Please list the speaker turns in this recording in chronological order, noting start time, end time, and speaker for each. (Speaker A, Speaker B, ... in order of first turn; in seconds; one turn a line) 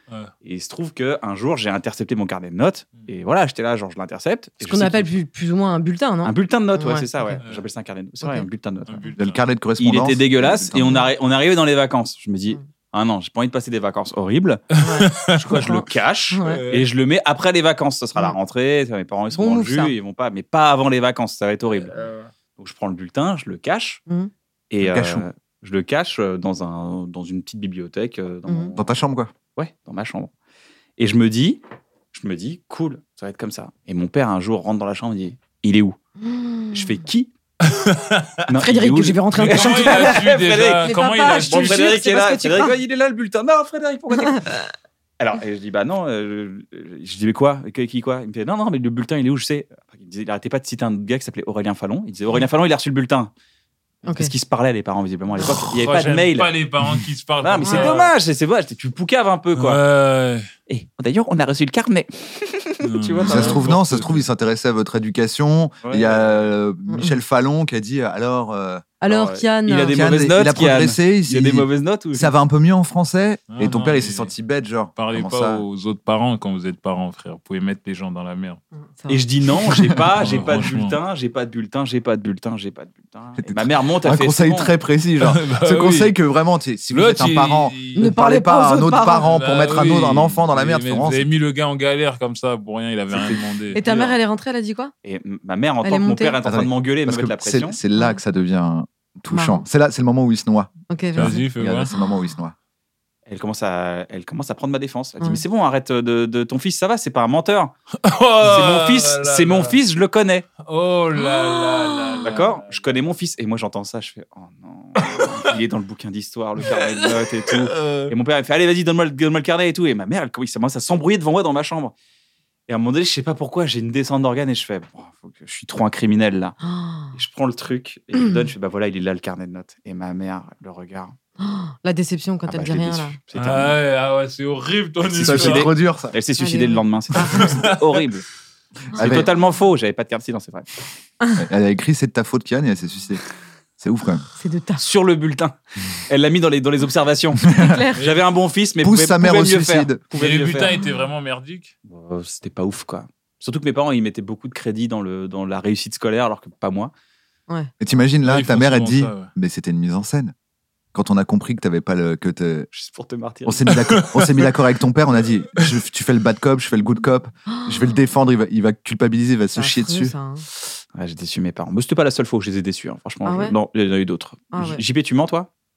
Speaker A: 0.4-5.1
Speaker B: 4.6-7.4
Speaker A: 6.2-9.1
Speaker B: 8.2-8.5
Speaker C: 8.9-9.4
Speaker D: 9.2-11.1
Speaker A: 9.8-14.6
Speaker C: 14.7-15.4
Speaker B: 14.8-16.6
Speaker A: 15.4-21.9
Speaker C: 16.4-16.9
Speaker B: 19.3-19.9
Speaker C: 21.9-22.3
Speaker A: 22.6-24.0
Speaker A: 24.7-28.9
Speaker D: 24.8-25.3
Speaker B: 28.5-28.7
Speaker D: 28.8-29.3
Speaker A: 29.6-30.3
Speaker A: 31.0-31.6
Speaker A: 32.1-36.0
Speaker B: 36.2-36.9
Speaker A: 36.7-37.3
Speaker C: 37.6-38.4
Speaker A: 38.5-44.5
Speaker B: 38.6-40.3
Speaker C: 39.3-41.9
Speaker B: 40.8-42.8
Speaker B: 44.2-44.6
Speaker A: 45.2-53.3
Speaker B: 54.0-54.3
Speaker A: 54.1-56.5
Speaker C: 55.4-58.1
Speaker A: 57.4-59.8
Speaker B: 57.6-57.9
Speaker C: 59.5-60.5
Speaker A: 60.7-63.7
Speaker C: 62.8-64.3
Speaker D: 63.2-68.8
Speaker A: 65.8-66.5
Speaker B: 66.9-67.2
Speaker B: 69.0-70.0
Speaker A: 69.1-72.3
Speaker D: 69.9-75.7
Speaker C: 73.5-74.3
Speaker C: 75.0-78.6
Speaker B: 78.8-79.3
Speaker A: 79.1-84.7
Speaker D: 79.8-80.3
Speaker C: 80.2-81.0
Speaker D: 83.4-91.3
Speaker C: 85.2-86.2
Speaker C: 86.9-88.1
Speaker B: 88.0-89.3
Speaker C: 89.1-93.9
Speaker A: 93.1-94.1
Speaker B: 93.7-94.9
Speaker A: 95.0-97.8
Speaker B: 95.8-96.4
Speaker D: 96.5-102.5
Speaker B: 97.9-98.2
Speaker B: 99.3-99.7
Speaker B: 100.9-101.4
Speaker C: 101.2-101.9
Speaker A: 103.3-107.8
Speaker C: 108.0-109.8
Speaker A: 108.4-110.5
Speaker C: 110.6-113.0
Speaker B: 111.2-112.2
Speaker A: 112.2-122.0
Speaker C: 115.0-115.3
Speaker C: 116.6-118.1
Speaker A: 122.7-126.6
Speaker B: 126.6-127.2
Speaker A: 127.1-131.2
Speaker B: 131.4-133.2
Speaker A: 132.5-133.8
Speaker C: 133.3-135.7
Speaker A: 135.1-138.3
Speaker D: 135.2-136.1
Speaker B: 136.4-137.6
Speaker C: 137.4-138.1
Speaker D: 138.9-139.3
Speaker A: 138.9-140.8
Speaker D: 141.4-143.2
Speaker D: 143.8-144.2
Speaker B: 144.4-144.8
Speaker A: 144.8-150.8
Speaker D: 147.5-147.8
Speaker B: 147.6-148.0
Speaker D: 148.8-150.0
Speaker C: 150.2-151.7
Speaker A: 151.9-156.9
Speaker D: 157.8-160.3
Speaker C: 158.2-159.3
Speaker D: 160.9-162.7
Speaker A: 162.7-163.7
Speaker D: 163.5-170.2
Speaker C: 163.7-164.5
Speaker B: 167.5-168.0
Speaker B: 169.6-170.4
Speaker A: 170.9-175.5
Speaker B: 173.2-173.6
Speaker B: 174.5-174.8